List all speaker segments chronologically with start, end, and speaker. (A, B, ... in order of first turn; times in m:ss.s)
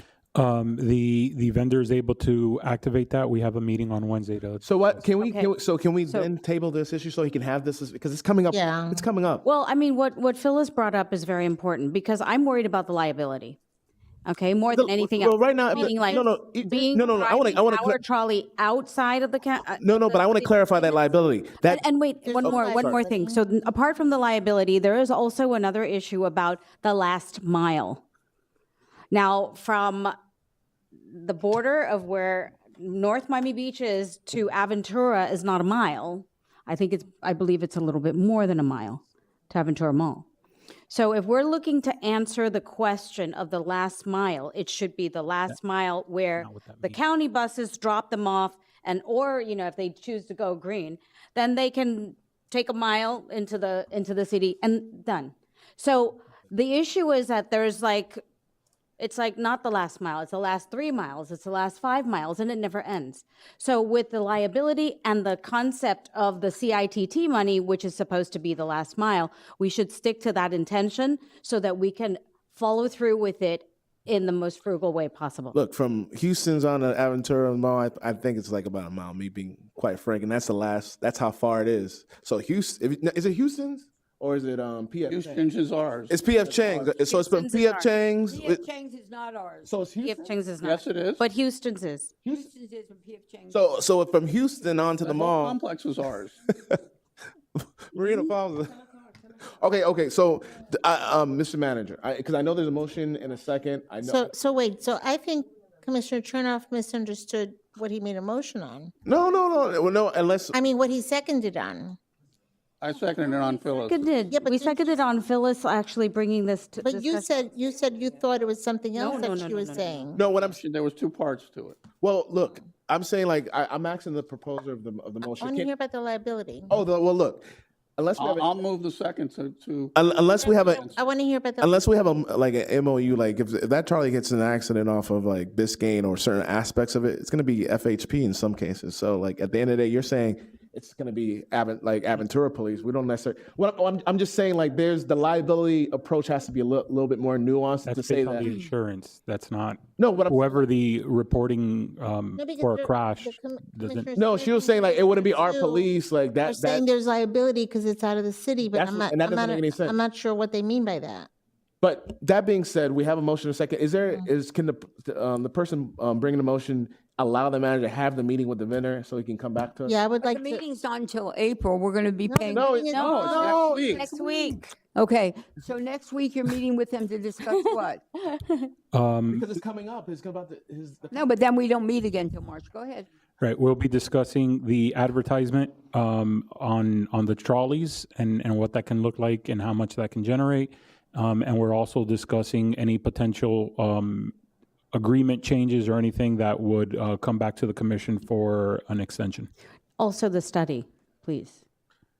0:00.3-0:05.0 A
0:04.6-0:09.4 B
0:05.2-0:05.5 C
0:08.5-0:09.0 D
0:09.4-0:13.6 C
0:14.2-0:21.0 C
0:14.7-0:18.0 B
0:15.7-0:16.2 D
0:19.8-0:21.8 B
0:21.6-0:28.0 C
0:22.2-0:23.4 D
0:22.4-0:23.0 B
0:29.1-0:30.1 C
0:31.1-0:40.2 C
0:40.9-0:58.2 C
0:46.4-0:47.0 A
0:59.0-1:15.6 C
1:15.5-1:25.4 B
1:25.1-1:27.0 E
1:26.1-1:28.6 B
1:27.0-1:27.9 C
1:28.3-1:29.7 F
1:29.6-1:30.2 B
1:30.0-1:32.1 C
1:30.6-1:31.2 E
1:32.2-1:32.5 B
1:32.3-1:33.6 F
1:33.5-1:35.6 B
1:35.0-1:36.4 E
1:36.5-1:36.8 B
1:37.9-1:38.8 B
1:39.5-1:44.3 B
1:44.0-1:48.9 D
1:49.0-1:50.6 B
1:50.5-1:52.0 D
1:52.8-1:54.0 E
1:53.8-1:57.4 C
1:54.3-1:55.0 D
1:56.8-2:00.2 D
1:58.9-2:00.0 C
2:00.1-2:00.5 B
2:00.4-2:01.8 E
2:01.9-2:05.7 B
2:05.2-2:06.8 D
2:06.7-2:07.4 B
2:08.0-2:08.6 B
2:08.2-2:11.0 E
2:09.9-2:10.9 B
2:10.5-2:11.9 D
2:11.6-2:28.5 B
2:27.8-2:34.1 A
2:30.0-2:30.7 B
2:32.4-2:35.9 D
2:34.2-2:36.8 B
2:36.4-2:41.3 D
2:38.7-2:40.0 B
2:41.8-2:50.0 B
2:49.8-2:50.6 D
2:50.2-2:58.2 F
2:52.3-2:54.0 D
2:52.5-2:53.8 B
2:52.9-2:54.6 E
2:54.1-2:54.6 C
2:58.2-2:58.7 C
2:58.9-2:59.5 A
2:59.3-3:01.2 B
3:01.1-3:03.1 F
3:03.4-3:14.3 A
3:14.9-3:19.5 A
3:20.0-3:21.6 C